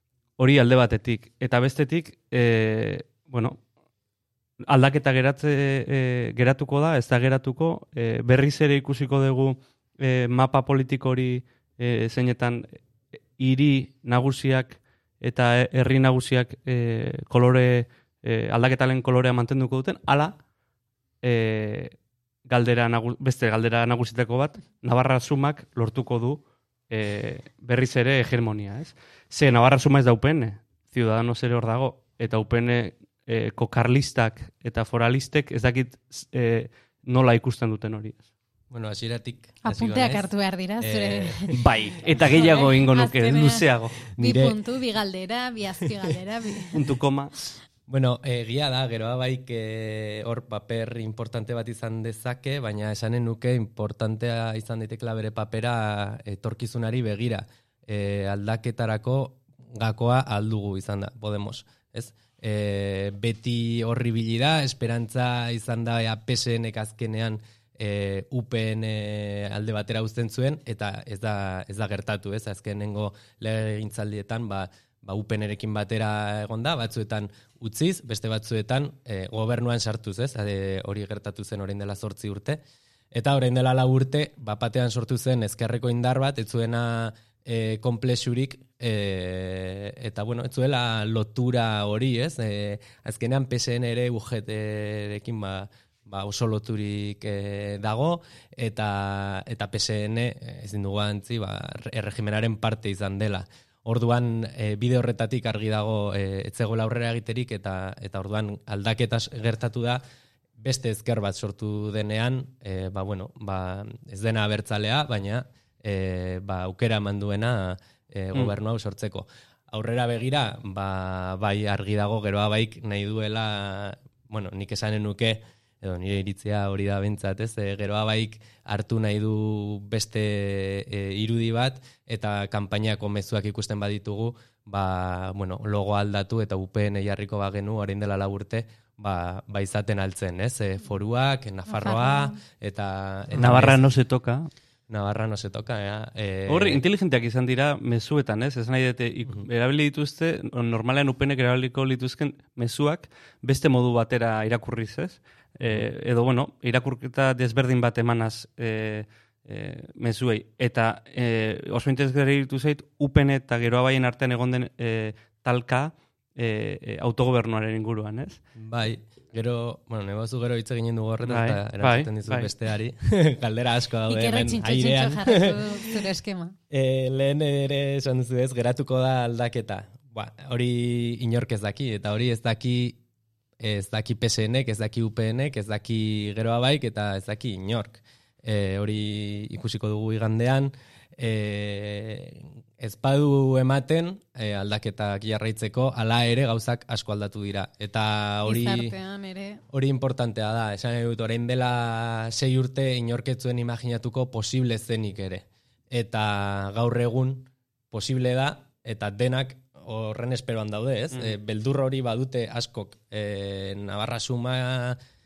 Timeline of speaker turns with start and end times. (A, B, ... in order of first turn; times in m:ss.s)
0:00.4-0:03.6 A
0:04.7-0:12.8 A
0:13.4-0:20.4 A
0:21.2-0:21.9 A
0:22.5-0:38.2 A
0:38.7-0:41.6 B
0:39.6-0:43.6 C
0:41.5-0:43.9 A
0:44.1-0:44.5 B
0:44.2-0:46.8 C
0:46.7-0:47.3 A
0:47.9-1:22.6 B
1:23.1-1:50.0 B
1:50.6-2:23.9 B
2:21.7-2:22.4 C
2:23.3-2:24.5 A
2:24.9-2:26.8 B
2:26.5-2:48.4 A
2:48.6-2:55.6 B
2:51.3-2:52.5 A
2:54.1-2:56.5 C
2:56.7-3:03.0 B
3:03.6-3:18.9 B
3:18.4-3:19.6 C
3:19.7-3:35.0 B